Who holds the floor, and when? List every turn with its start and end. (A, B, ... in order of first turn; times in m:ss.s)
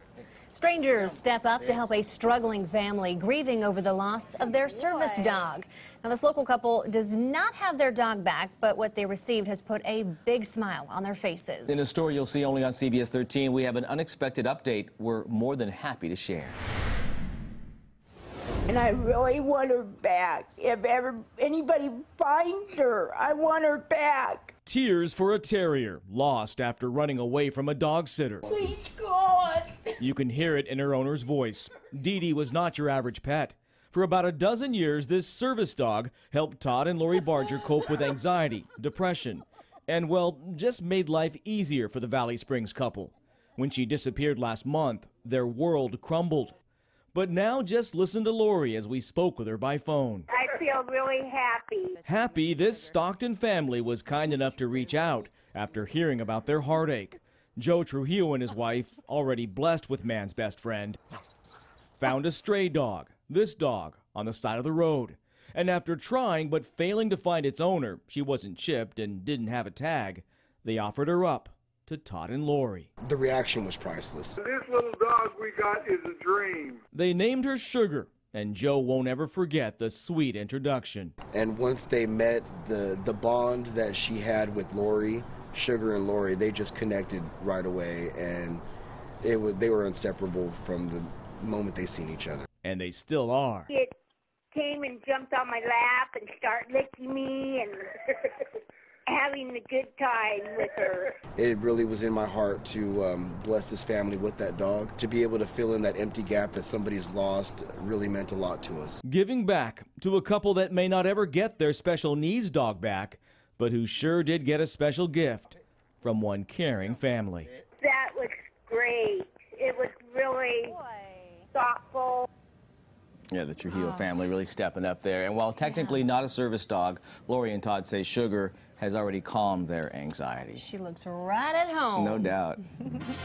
0:00.5-0:11.7 A
0:11.7-0:16.6 B
0:18.7-0:24.5 C
0:24.6-0:28.4 D
0:28.5-0:30.0 C
0:30.0-0:46.6 D
0:47.1-0:50.3 D
0:50.3-0:52.0 E
0:52.0-1:01.0 D
1:02.0-1:12.9 D
1:13.0-1:14.4 F
1:14.4-1:16.8 G
1:16.9-1:21.1 D
1:21.3-1:28.6 F
1:29.2-1:32.4 F
1:32.6-1:33.7 D
1:34.5-1:38.5 E
1:39.1-1:41.2 E
1:41.4-1:49.0 F
1:49.0-1:57.5 D
1:57.8-2:00.8 E
2:01.5-2:02.3 E
2:03.3-2:10.6 B
2:10.6-2:12.3 A
2:12.0-2:12.6 B